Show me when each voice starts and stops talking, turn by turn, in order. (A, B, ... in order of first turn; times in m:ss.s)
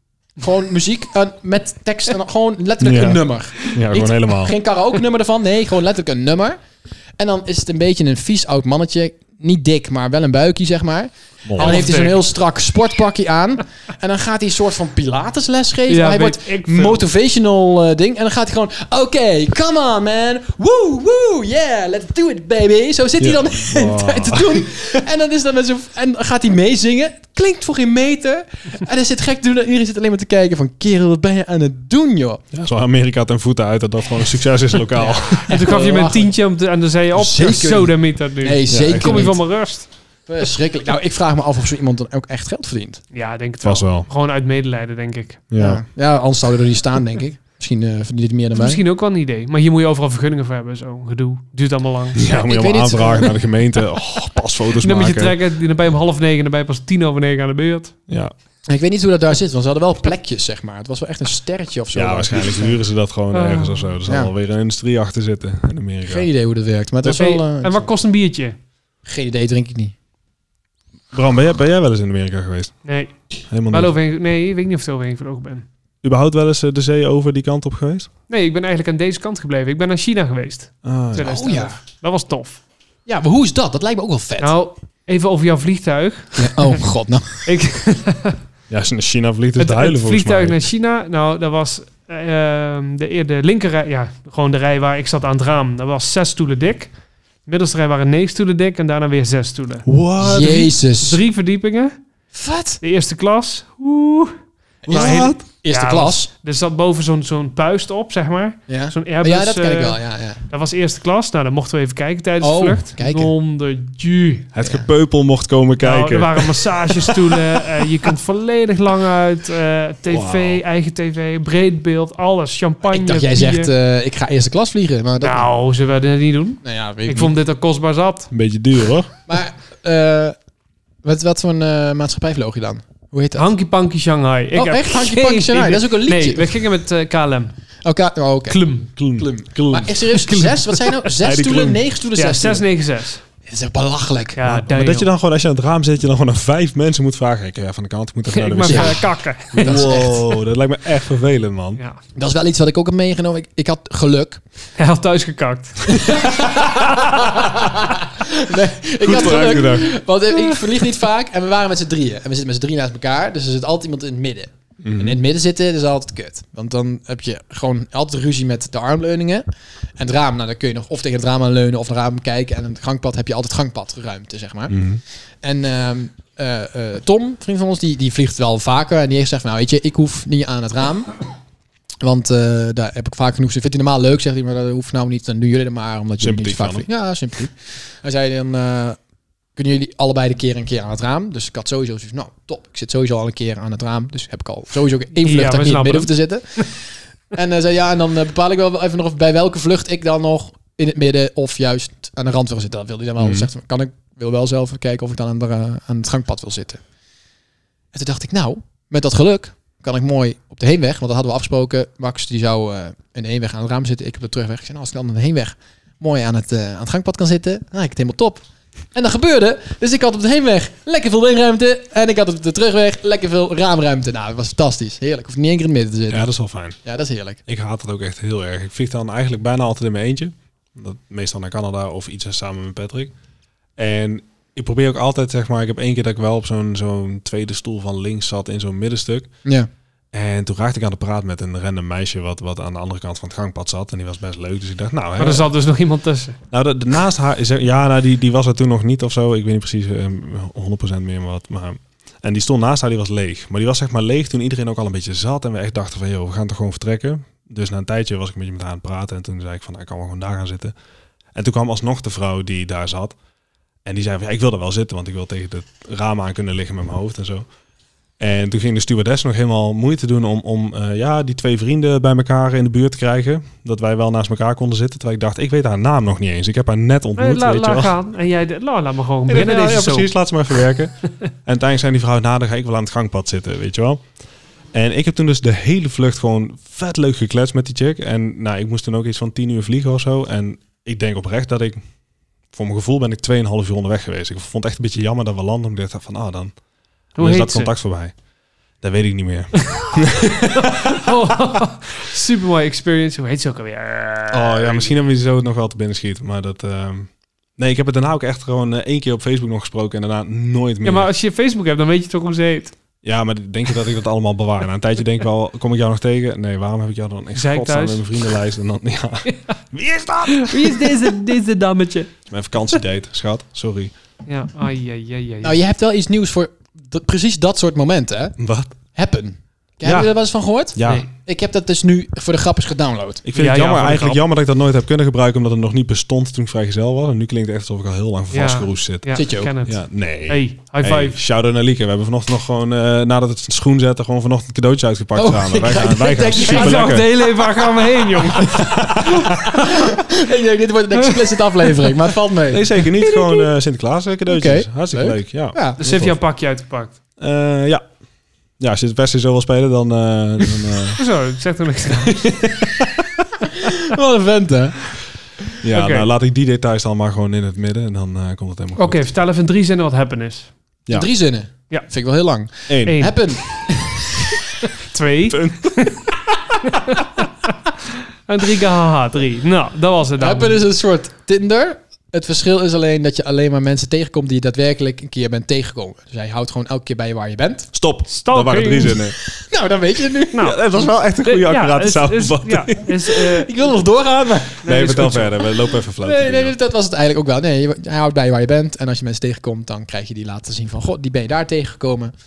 0:00.4-0:06.6 A
0:02.8-0:04.5 B
0:07.2-0:32.4 A
0:11.4-0:11.9 B
0:11.6-0:12.2 C
0:15.9-0:17.0 C
0:23.2-0:24.7 B
0:32.5-0:35.5 B
0:35.0-0:36.3 A
0:35.5-0:39.9 C
0:37.1-0:39.4 A
0:38.7-0:39.2 B
0:40.3-0:43.0 A
0:43.1-0:45.4 C
0:43.6-0:44.1 B
0:45.5-0:45.8 B
0:45.6-0:48.8 A
0:48.5-0:52.2 C
0:52.1-0:55.4 B
0:52.2-0:53.3 A
0:54.8-0:57.9 C
0:58.1-0:58.3 B
0:58.7-1:02.8 A
1:01.9-1:06.3 B
1:03.3-1:03.9 C
1:06.0-1:07.8 A
1:07.0-1:08.6 C
1:09.0-1:09.9 A
1:11.1-1:12.8 B
1:12.8-1:13.1 C
1:13.5-1:13.9 B
1:13.7-1:15.6 C
1:16.0-1:18.1 B
1:18.3-1:22.6 C
1:20.8-1:21.4 B
1:21.2-1:21.8 A
1:23.1-1:24.5 A
1:24.4-1:26.8 C
1:26.4-1:27.5 A
1:27.4-1:28.4 C
1:28.7-1:30.6 B
1:29.6-1:36.9 C
1:37.4-1:39.8 C
1:39.8-1:40.7 B
1:40.2-1:41.2 A
1:41.0-1:41.9 C
1:42.3-1:42.8 A
1:42.8-1:54.5 C
1:44.9-1:45.4 B
1:44.9-1:46.3 A
1:48.7-1:50.4 A
1:52.4-1:53.3 A
1:54.5-1:57.4 B
1:55.8-2:03.7 C
2:00.1-2:00.6 B
2:02.8-2:05.5 A
2:05.2-2:08.3 C
2:06.6-2:07.3 A
2:08.3-2:09.1 B
2:09.3-2:10.3 A
2:11.0-2:13.5 A
2:13.3-2:17.5 C
2:14.5-2:16.5 A
2:17.8-2:18.6 A
2:18.5-2:18.9 C
2:19.0-2:20.2 B
2:19.1-2:22.6 A
2:20.2-2:21.1 C
2:21.2-2:21.8 B
2:22.2-2:23.2 C
2:23.4-2:24.4 A
2:24.4-2:25.1 C
2:24.4-2:31.8 B
2:28.3-2:30.0 C
2:28.6-2:29.0 A
2:29.5-2:30.2 A
2:32.1-2:34.4 A
2:34.8-2:37.3 C
2:35.9-2:49.4 A
2:39.0-2:39.9 B
2:44.8-2:45.2 B
2:50.0-2:54.8 A
2:54.7-2:55.0 B
2:55.4-3:01.1 A
3:02.0-3:09.0 A
3:06.2-3:06.8 B
3:09.5-3:26.8 A
3:15.2-3:16.7 C
3:23.2-3:23.5 B
3:27.9-3:38.4 A
3:38.9-3:46.3 A
3:46.1-3:46.8 B
3:46.8-3:47.4 A
3:47.5-3:53.1 B
3:53.8-3:59.3 B
4:00.1-4:05.5 B
4:05.2-4:06.4 C
4:06.5-4:20.7 B
4:21.3-4:23.2 B
4:23.8-4:27.4 B
4:28.2-4:37.9 B
4:37.2-4:40.1 C
4:39.3-4:44.0 B
4:44.7-4:51.8 B
4:52.5-4:56.5 B
4:57.2-4:58.1 B
4:57.2-4:57.7 C
4:58.8-5:01.1 B
4:59.6-4:59.9 C
5:00.6-5:04.9 C
5:04.3-5:11.1 B
5:10.8-5:12.7 C
5:13.0-5:21.2 B
5:17.3-5:18.0 C
5:20.3-5:22.1 C
5:22.3-5:23.9 B
5:24.2-5:25.6 C
5:25.4-5:28.4 A
5:28.4-5:28.7 B
5:28.9-5:33.2 A
5:29.8-5:30.1 B
5:30.7-5:31.0 B
5:33.2-5:39.1 B
5:33.3-5:34.2 C
5:38.3-5:41.1 C
5:39.1-5:39.5 A
5:39.6-5:47.1 B
5:45.2-5:52.7 A
5:46.4-5:48.7 C
5:48.5-5:49.5 B
5:51.1-5:51.9 C
5:52.5-5:56.2 B
5:52.9-5:53.5 C
5:54.3-5:55.8 A
5:55.8-5:56.9 C
5:57.2-5:57.8 B
5:58.6-6:01.0 B
6:01.0-6:02.5 C
6:03.5-6:04.9 A
6:05.6-6:09.0 B
6:05.7-6:06.1 C
6:08.8-6:10.5 C
6:10.9-6:14.2 A
6:12.7-6:13.0 B
6:12.8-6:13.4 C
6:14.8-6:16.1 C
6:15.3-6:16.1 B
6:16.6-6:20.6 C
6:20.2-6:27.7 A
6:27.7-6:29.1 B
6:28.1-6:29.0 C
6:29.4-6:30.4 A
6:30.3-6:30.7 C
6:30.4-6:33.2 B
6:31.2-6:33.6 C
6:33.4-6:34.6 A
6:34.6-6:35.4 C
6:34.6-6:36.5 B
6:36.0-6:42.1 A